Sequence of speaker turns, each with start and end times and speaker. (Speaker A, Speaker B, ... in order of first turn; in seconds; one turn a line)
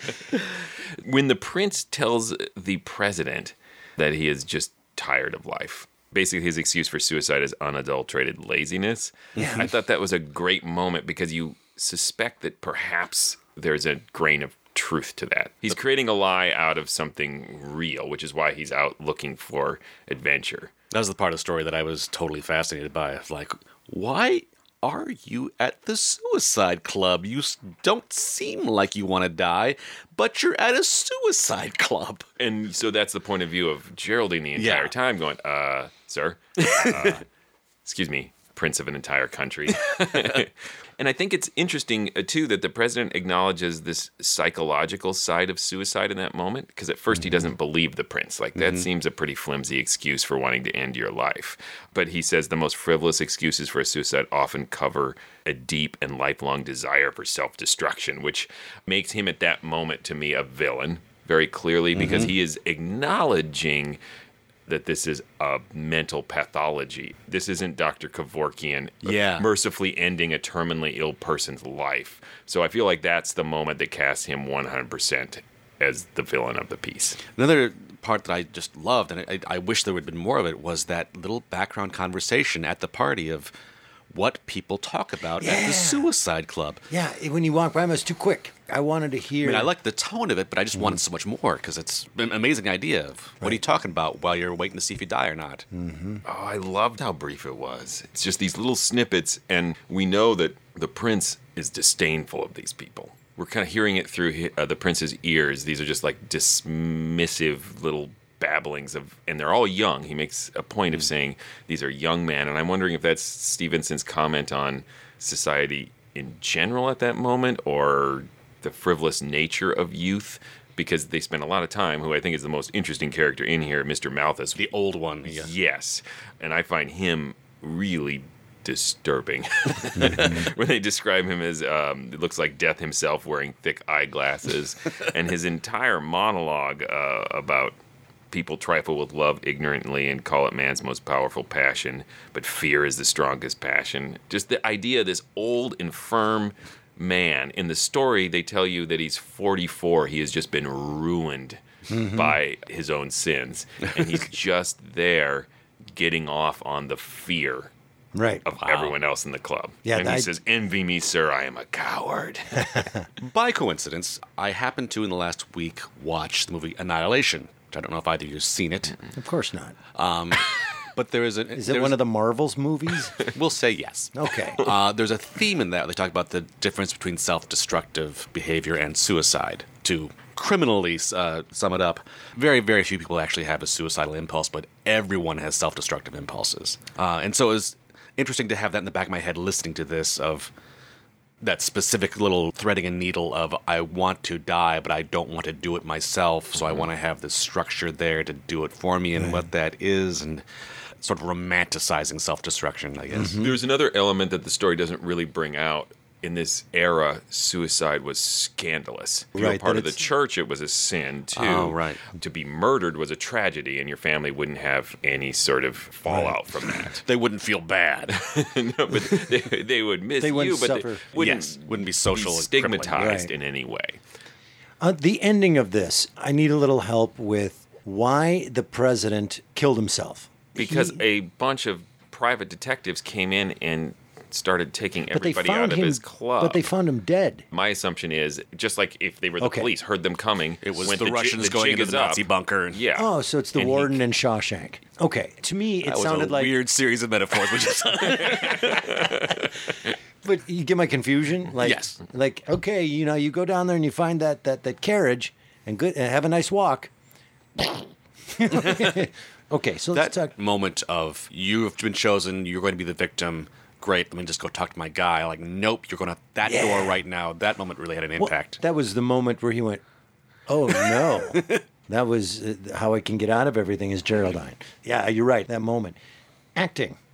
Speaker A: 1.0-20.7
Speaker B: 20.9-32.2
Speaker A: 32.4-37.2
Speaker B: 34.5-34.9
Speaker B: 36.6-37.2
Speaker A: 37.9-64.0
Speaker B: 48.5-48.9
Speaker B: 61.9-62.3
Speaker A: 64.7-77.2
Speaker B: 69.0-69.5
Speaker B: 77.3-83.5
Speaker B: 84.1-86.8
Speaker C: 85.4-86.1
Speaker C: 86.9-89.7
Speaker B: 89.4-95.7
Speaker C: 95.7-96.2
Speaker A: 96.3-124.6
Speaker B: 124.5-125.5
Speaker A: 125.3-137.8
Speaker B: 130.0-130.3
Speaker A: 138.3-157.7
Speaker C: 151.9-152.4
Speaker C: 158.1-158.4
Speaker A: 158.4-162.8
Speaker B: 158.6-158.9
Speaker C: 159.9-160.3
Speaker B: 163.2-168.9
Speaker C: 169.2-169.8
Speaker B: 169.9-172.0
Speaker C: 171.6-173.2
Speaker B: 173.3-174.1
Speaker C: 174.1-174.6
Speaker B: 174.6-190.5
Speaker B: 191.4-200.4
Speaker A: 196.6-196.9
Speaker B: 201.0-203.4
Speaker C: 203.2-203.5
Speaker A: 203.3-217.0
Speaker C: 209.3-210.0
Speaker B: 211.3-212.0
Speaker C: 216.1-216.3
Speaker B: 217.0-218.2
Speaker A: 218.3-224.0
Speaker C: 220.2-221.0
Speaker B: 221.1-223.2
Speaker C: 223.0-223.3
Speaker C: 224.8-231.0
Speaker A: 230.6-236.6
Speaker C: 235.1-237.4
Speaker A: 237.5-243.1
Speaker C: 239.4-239.7
Speaker B: 240.6-242.8
Speaker C: 242.9-246.5
Speaker B: 243.6-243.9
Speaker B: 245.9-249.1
Speaker A: 248.3-249.2
Speaker C: 250.2-256.9
Speaker B: 251.6-252.0
Speaker C: 258.3-260.3
Speaker B: 258.5-258.9
Speaker B: 259.9-268.6
Speaker C: 266.4-267.0
Speaker C: 268.2-269.8
Speaker C: 270.5-276.0
Speaker B: 271.3-271.6
Speaker C: 276.6-277.0